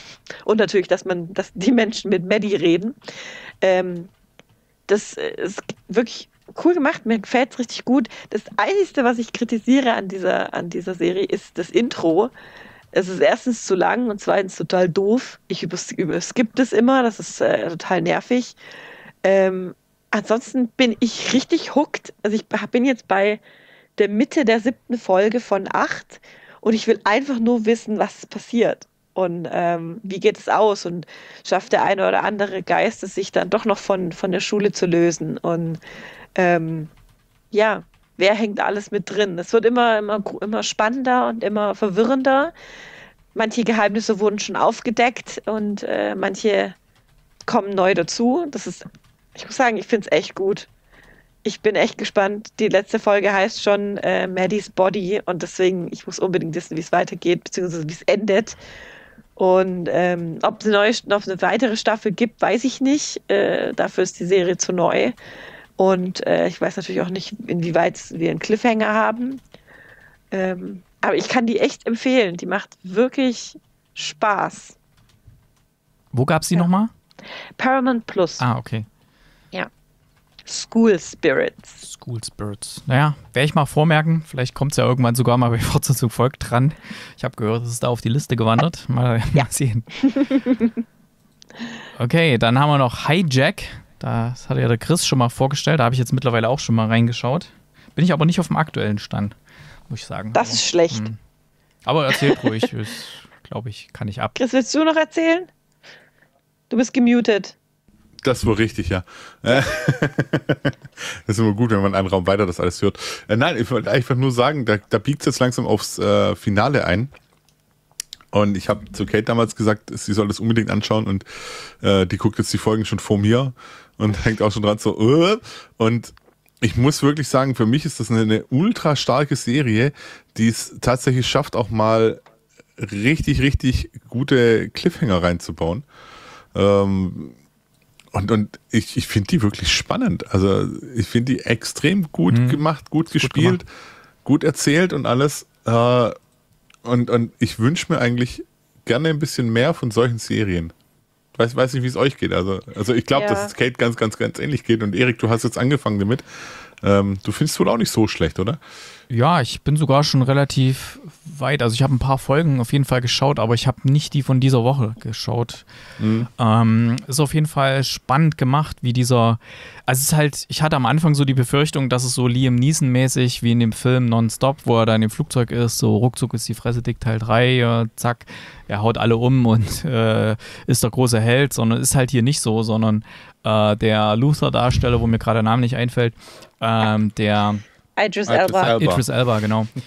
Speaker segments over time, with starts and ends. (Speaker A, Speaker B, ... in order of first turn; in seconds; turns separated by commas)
Speaker A: 0.4-3.0, Speaker A: 3.6-4.1, Speaker A: 4.9-12.3, Speaker A: 12.9-18.6, Speaker A: 19.2-23.4, Speaker A: 24.0-35.8, Speaker A: 36.4-36.9, Speaker A: 37.5-42.5, Speaker A: 43.3-46.7, Speaker A: 47.5-48.8, Speaker A: 49.4-50.7, Speaker A: 51.4-58.6, Speaker A: 59.4-65.1, Speaker A: 65.8-69.4, Speaker A: 70.3-74.8, Speaker B: 76.1-76.9, Speaker A: 77.6-78.4, Speaker B: 78.4-78.9, Speaker A: 80.5-81.8, Speaker B: 81.8-89.9, Speaker A: 90.0-90.7, Speaker B: 92.0-99.3, Speaker B: 99.9-101.2, Speaker A: 100.3-101.0, Speaker B: 101.8-104.3, Speaker A: 104.4-105.5, Speaker A: 106.7-107.5, Speaker C: 108.2-117.1, Speaker C: 118.3-132.2, Speaker C: 132.8-135.8, Speaker C: 136.5-137.3, Speaker C: 138.1-143.7, Speaker B: 142.3-143.6, Speaker C: 144.2-146.2, Speaker C: 146.8-150.7, Speaker C: 151.3-156.2, Speaker A: 153.1-153.5, Speaker C: 156.8-158.6, Speaker B: 159.1-165.7, Speaker C: 166.0-166.3, Speaker B: 166.4-187.6, Speaker A: 188.0-188.7, Speaker C: 188.3-189.0, Speaker B: 188.7-189.7